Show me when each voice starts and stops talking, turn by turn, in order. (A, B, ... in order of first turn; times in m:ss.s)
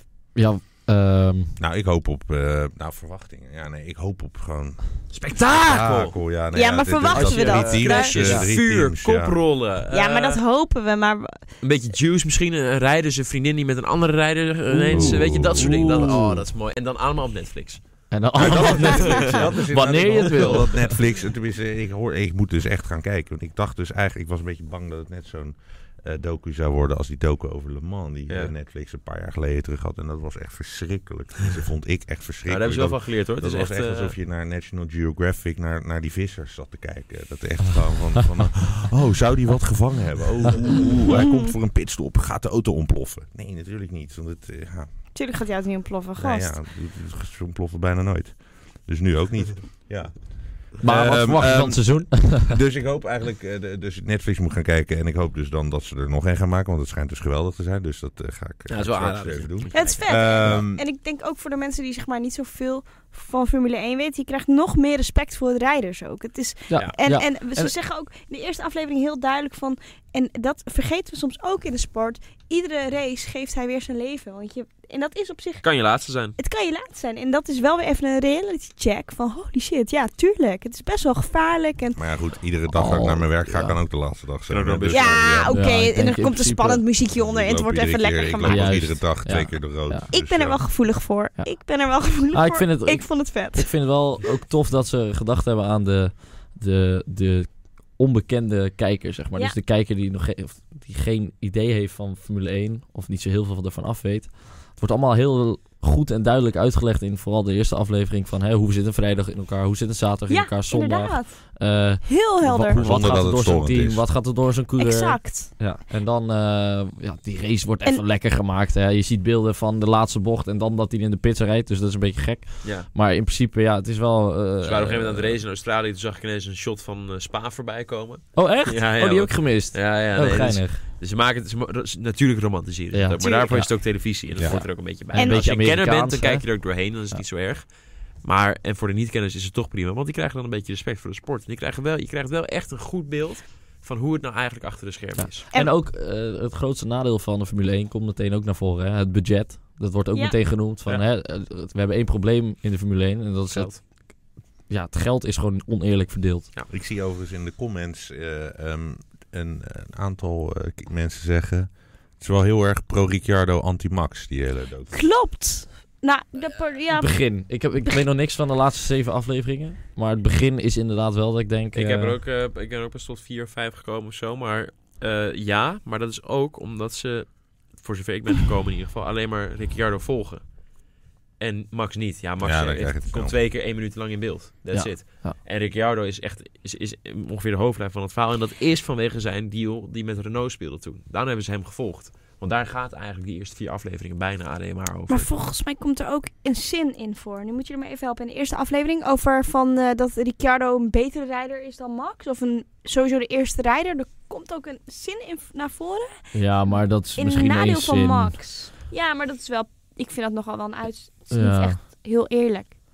0:00.3-0:01.6 A
0:01.6-0:09.4 B
0:05.1-0:06.2 C
0:06.5-0:08.2 D
0:07.1-0:08.5 A
0:07.5-0:10.4 C
0:09.9-0:11.5 D
0:11.6-0:19.5 C
0:14.7-0:16.4 A
0:14.9-0:16.1 B
0:18.1-0:21.0 A
0:18.4-0:45.0 B
0:18.8-0:19.2 D
0:32.4-0:34.2 C
0:45.1-0:46.6 D
0:46.2-1:00.8 B
0:50.8-0:52.5 A
0:58.7-1:00.5 C
0:59.7-1:22.1 D
1:06.7-1:07.7 A
1:15.6-1:16.4 C
1:22.0-1:25.6 B
1:22.7-1:23.8 A
1:24.5-1:25.5 C
1:24.9-1:29.1 D
1:25.5-1:26.8 A
1:27.1-1:30.7 B
1:28.4-1:30.1 A
1:30.1-1:34.1 D
1:31.4-2:05.4 A
1:50.3-1:52.9 D
1:52.7-1:54.1 B
1:54.8-1:55.6 D
2:02.6-2:02.9 C
2:04.6-2:25.4 C
2:08.3-2:10.8 A
2:12.9-2:16.5 A
2:13.2-2:13.6 D
2:14.3-2:14.6 B
2:15.1-2:15.5 D
2:25.1-2:36.5 A
2:33.5-2:33.8 C
2:36.7-2:44.9 B
2:44.9-2:47.5 D
2:46.9-2:52.2 A
2:51.7-3:00.6 C
3:01.4-3:15.3 C
3:02.4-3:03.4 B
3:04.7-3:05.4 A
3:15.1-3:32.8 D
3:26.3-3:28.4 A
3:31.3-3:31.8 A